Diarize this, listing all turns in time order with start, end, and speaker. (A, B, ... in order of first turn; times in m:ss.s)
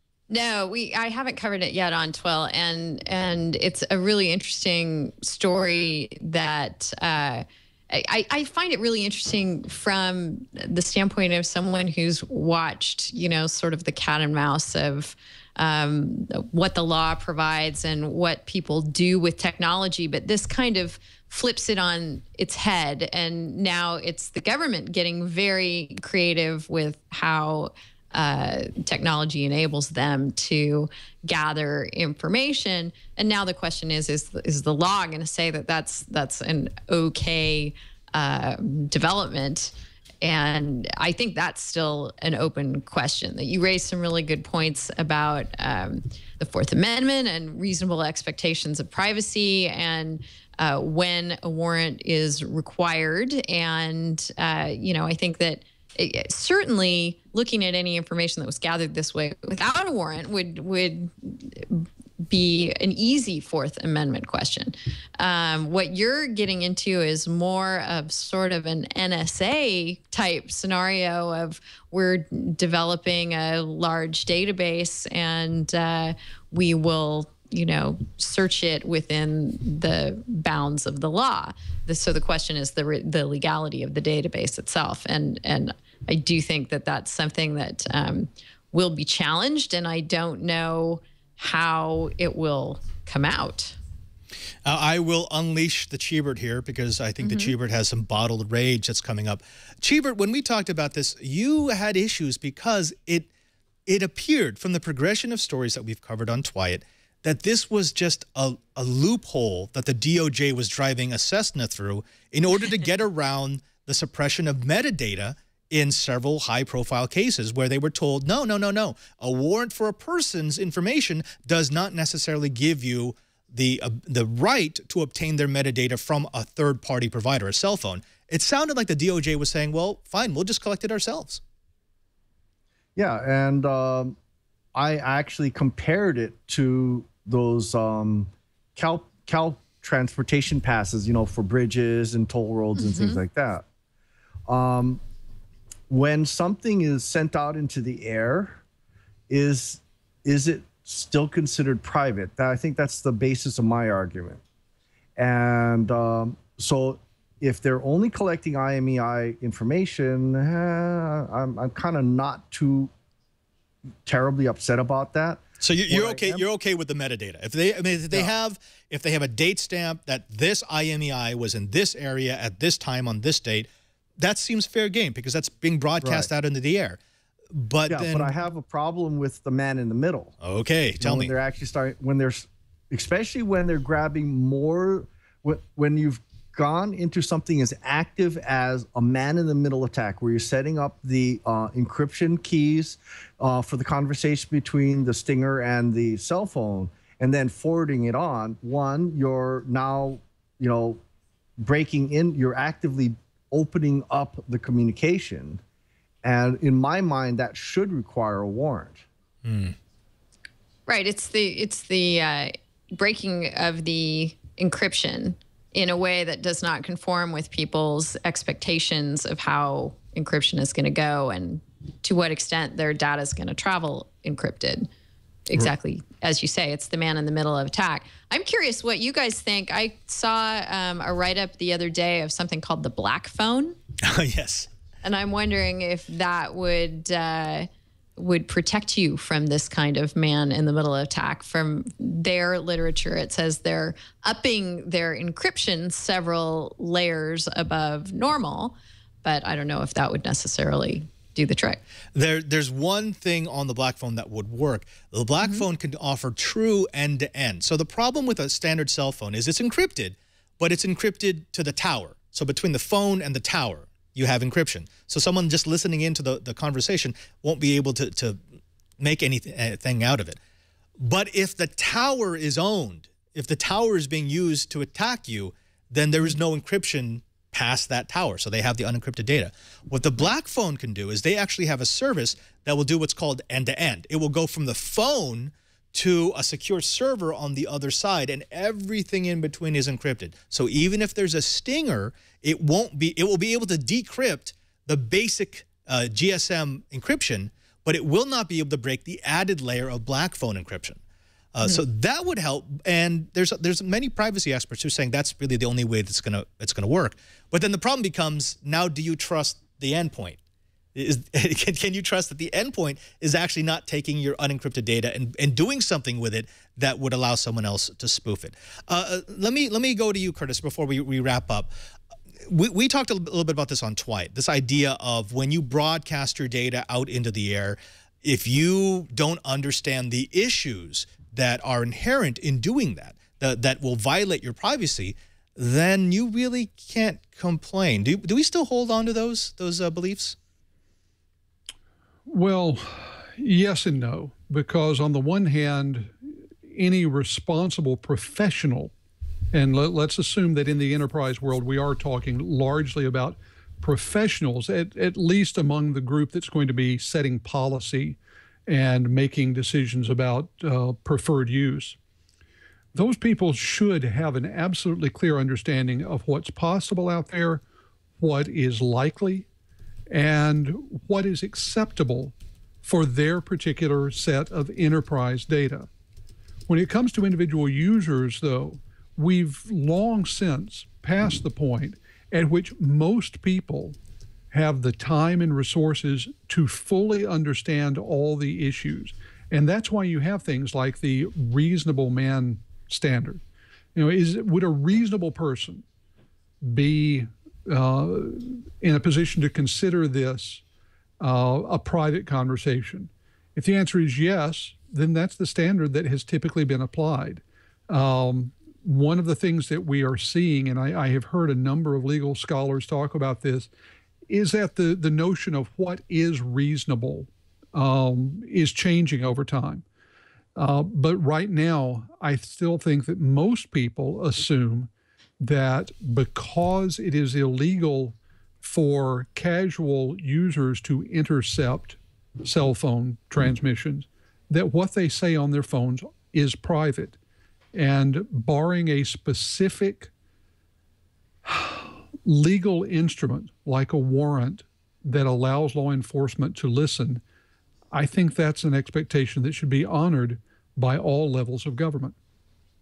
0:00.3-1:33.8 A
1:34.6-1:43.3 B
1:37.2-1:37.5 A
1:43.9-2:11.4 B
2:13.0-2:14.2 C
2:14.7-2:23.6 C
2:22.8-2:23.2 A
2:24.5-2:25.0 C
2:25.9-2:28.6 C
2:29.3-2:34.4 C
2:35.2-2:42.9 C
2:44.0-2:46.4 C
2:45.6-2:53.7 B
2:54.2-2:57.0 B
2:56.0-2:56.3 C
2:57.5-2:58.3 B
2:57.9-3:00.4 C
3:00.4-3:01.3 B
3:01.0-3:21.0 C
3:21.6-3:25.6 C
3:26.2-3:29.0 C
3:29.4-3:29.8 B
3:30.9-3:44.9 A
3:45.5-3:53.8 A
3:54.0-3:54.7 B
3:55.0-4:11.8 A
4:12.2-4:28.4 B
4:29.0-4:30.4 B
4:31.0-5:01.0 B
5:01.5-5:10.4 B
5:11.0-5:21.7 B
5:22.5-5:40.4 B
5:42.3-5:46.1 D
5:46.7-5:48.9 D
5:49.5-6:02.0 D
6:02.9-6:07.6 D
6:08.2-6:09.5 D
6:10.1-6:15.9 D
6:16.7-6:24.0 D
6:24.5-6:33.4 D
6:34.0-6:35.8 D
6:36.6-6:40.6 D
6:41.2-6:53.7 D
6:54.3-6:59.8 D
7:00.6-7:17.2 D
7:17.7-7:20.1 D
7:21.4-7:27.2 D
7:27.9-7:32.2 D